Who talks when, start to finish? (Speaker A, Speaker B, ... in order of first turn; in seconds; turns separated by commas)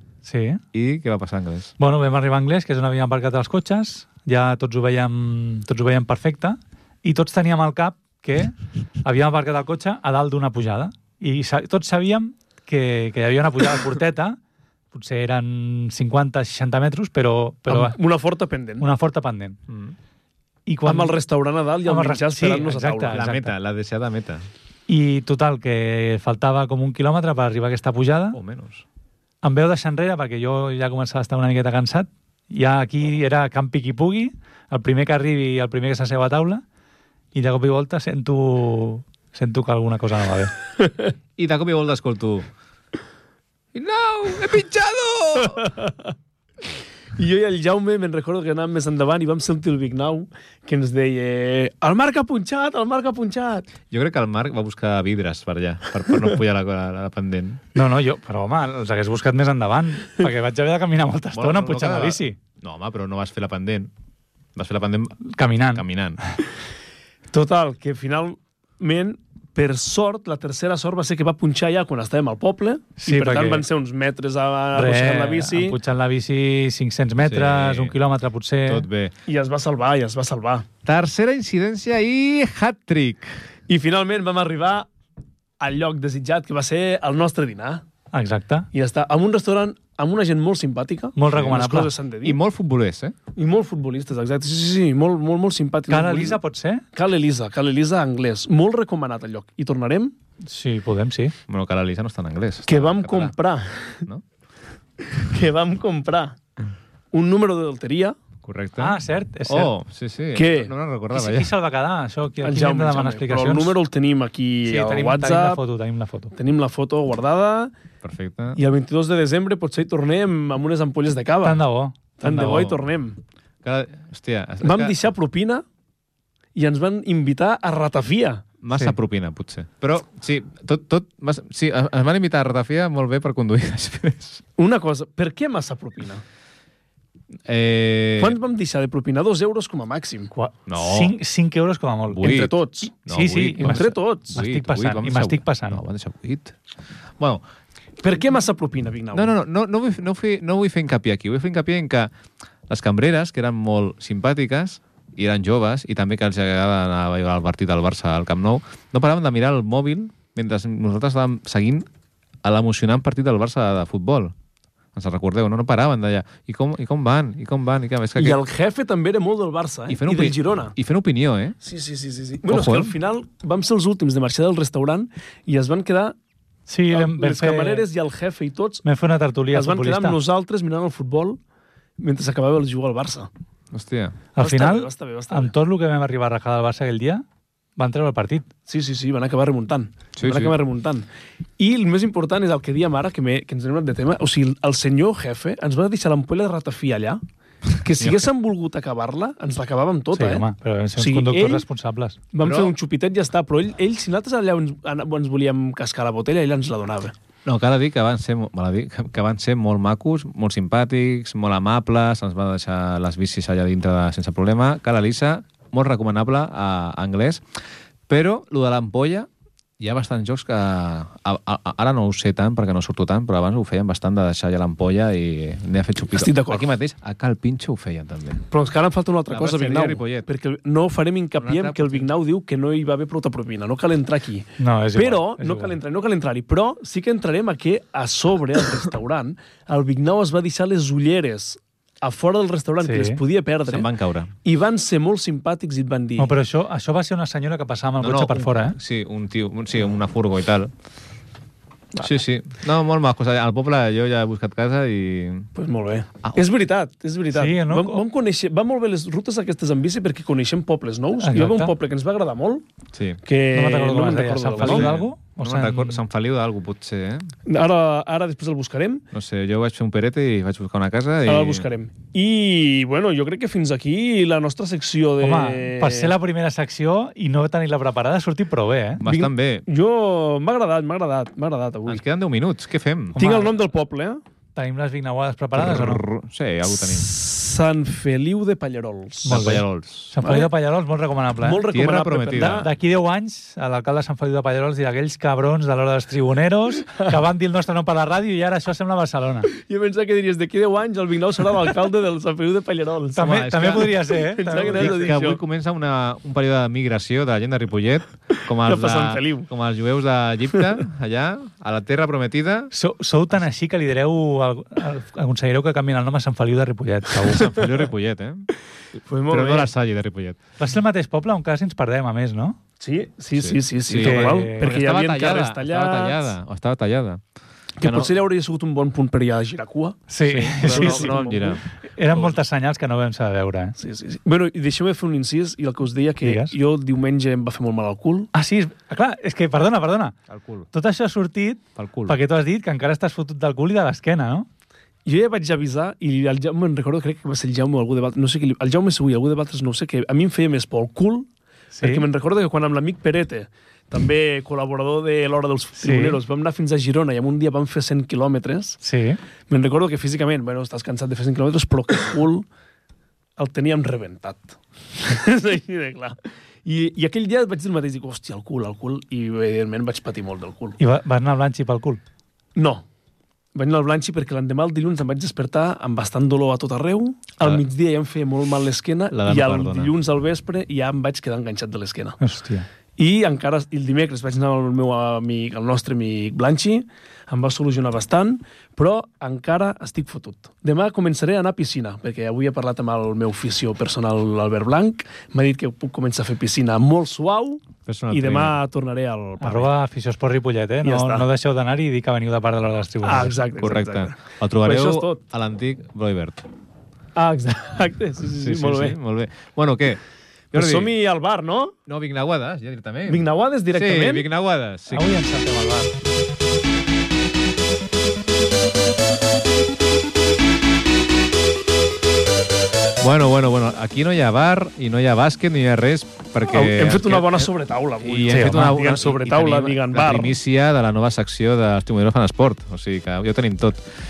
Speaker A: 0.2-0.6, Speaker B: 0.7-1.7, Speaker A: 1.8-14.4, Speaker A: 14.9-18.0, Speaker C: 17.7-18.9, Speaker A: 18.8-19.6, Speaker B: 19.7-19.9, Speaker A: 20.7-21.2, Speaker C: 20.9-23.2, Speaker A: 21.9-23.5, Speaker B: 23.1-24.4, Speaker A: 24.9-28.4, Speaker B: 28.3-28.8, Speaker A: 29.4-36.6, Speaker A: 37.3-40.5, Speaker B: 41.4-42.5, Speaker B: 43.7-45.7, Speaker C: 45.6-45.9, Speaker C: 47.2-53.7, Speaker B: 53.9-57.6, Speaker A: 57.7-62.4, Speaker B: 61.3-63.9, Speaker B: 64.5-66.2, Speaker A: 65.3-65.8, Speaker C: 67.3-75.8, Speaker A: 73.0-73.6, Speaker A: 74.7-78.9, Speaker B: 77.2-78.0, Speaker B: 78.7-79.1, Speaker C: 79.3-80.7, Speaker B: 80.8-83.4, Speaker C: 83.7-84.9, Speaker C: 85.6-87.8, Speaker A: 88.1-88.7, Speaker C: 88.7-92.4, Speaker A: 91.2-91.9, Speaker B: 91.3-91.6, Speaker B: 92.2-93.2, Speaker C: 93.4-96.4, Speaker A: 95.9-96.8, Speaker C: 96.9-100.1, Speaker A: 100.5-101.3, Speaker B: 101.5-103.3, Speaker C: 102.7-104.1, Speaker C: 105.0-106.4, Speaker C: 107.1-108.1, Speaker B: 108.4-111.5, Speaker A: 108.8-109.7, Speaker C: 110.3-110.7, Speaker A: 111.1-113.7, Speaker C: 112.4-115.6, Speaker A: 114.7-116.3, Speaker C: 116.3-117.7, Speaker B: 118.0-118.6, Speaker C: 118.5-121.6, Speaker A: 121.4-122.7, Speaker C: 122.2-123.2, Speaker B: 122.3-122.7, Speaker B: 123.6-125.0, Speaker C: 124.6-125.6, Speaker C: 126.6-128.4, Speaker B: 128.6-134.4, Speaker C: 134.6-136.2, Speaker B: 137.4-138.4, Speaker C: 138.2-140.3, Speaker A: 140.3-145.8, Speaker B: 140.7-141.1, Speaker B: 142.1-142.5, Speaker C: 142.2-142.9, Speaker B: 143.1-146.6, Speaker C: 143.6-144.4, Speaker B: 147.2-147.4, Speaker C: 148.0-149.4, Speaker B: 149.1-152.1, Speaker B: 152.7-161.9, Speaker B: 162.4-164.3, Speaker B: 164.9-168.4, Speaker C: 168.2-170.7, Speaker B: 169.9-171.6, Speaker C: 171.6-176.2, Speaker B: 172.5-172.9, Speaker A: 176.7-177.9, Speaker C: 176.9-178.8, Speaker A: 178.8-180.2, Speaker C: 179.5-181.4, Speaker C: 182.0-183.3, Speaker B: 183.7-184.2, Speaker A: 184.3-187.2, Speaker C: 184.4-185.5, Speaker A: 187.8-188.5, Speaker C: 188.7-191.1, Speaker B: 190.2-190.5, Speaker C: 191.6-197.2, Speaker C: 197.8-200.4, Speaker B: 198.0-198.3, Speaker A: 200.1-202.2, Speaker C: 201.0-201.6, Speaker C: 202.3-207.1, Speaker B: 202.4-202.7, Speaker B: 207.4-217.4, Speaker B: 218.1-219.3, Speaker B: 219.8-228.4, Speaker C: 226.1-226.7, Speaker C: 228.5-243.9, Speaker B: 229.3-230.3, Speaker B: 231.4-232.1, Speaker A: 234.6-235.7, Speaker A: 242.8-243.2, Speaker B: 243.7-244.3, Speaker C: 244.4-246.3, Speaker A: 246.2-248.8, Speaker B: 248.0-250.7, Speaker B: 251.9-255.5, Speaker C: 255.6-262.6, Speaker A: 257.3-258.0, Speaker A: 261.2-261.7, Speaker B: 262.9-263.2, Speaker C: 263.2-264.9, Speaker A: 263.5-266.0, Speaker B: 264.6-267.3, Speaker C: 267.4-269.1, Speaker B: 269.1-271.7, Speaker C: 271.2-276.1, Speaker A: 275.2-279.0, Speaker B: 279.0-279.7, Speaker C: 279.0-282.0, Speaker B: 281.9-283.2, Speaker A: 283.2-283.5, Speaker C: 283.2-284.2, Speaker A: 284.6-286.0, Speaker B: 285.5-287.1, Speaker C: 286.7-289.4, Speaker A: 289.3-291.7, Speaker B: 289.3-290.1, Speaker C: 290.2-290.5, Speaker C: 291.4-292.7, Speaker B: 291.7-292.7, Speaker A: 292.3-299.5, Speaker C: 299.5-305.4, Speaker A: 303.2-305.2, Speaker B: 303.2-304.0, Speaker B: 304.6-312.7, Speaker C: 308.6-309.5, Speaker A: 312.7-317.6, Speaker B: 317.2-318.5, Speaker C: 319.1-319.7, Speaker B: 319.3-320.4, Speaker A: 320.6-322.6, Speaker C: 322.8-326.4, Speaker B: 323.4-327.2, Speaker A: 323.9-324.7, Speaker C: 327.8-331.6, Speaker B: 327.8-328.1, Speaker A: 330.1-331.3, Speaker B: 330.2-332.4, Speaker A: 331.9-333.7, Speaker C: 333.8-338.3, Speaker A: 336.2-336.5, Speaker A: 338.3-340.1, Speaker B: 340.3-340.7, Speaker A: 340.7-344.5, Speaker B: 341.8-342.2, Speaker C: 345.1-351.3, Speaker A: 351.7-352.1, Speaker C: 351.8-358.8, Speaker A: 355.8-356.2, Speaker A: 358.8-359.2, Speaker C: 359.5-362.4, Speaker C: 363.4-370.8, Speaker A: 370.8-372.0, Speaker C: 372.6-372.9, Speaker C: 373.6-382.2, Speaker B: 379.1-379.9, Speaker A: 382.2-382.7, Speaker C: 383.0-399.7, Speaker B: 397.9-398.6, Speaker A: 399.4-403.3, Speaker C: 400.8-401.3, Speaker C: 403.0-405.2, Speaker B: 403.6-406.4, Speaker C: 407.2-409.0, Speaker B: 408.4-410.0, Speaker B: 410.5-410.9, Speaker C: 410.5-411.8, Speaker B: 411.9-415.2, Speaker C: 413.1-414.3, Speaker A: 414.9-415.9, Speaker B: 423.0-427.5, Speaker C: 426.5-430.4, Speaker B: 428.0-433.8, Speaker A: 428.3-428.7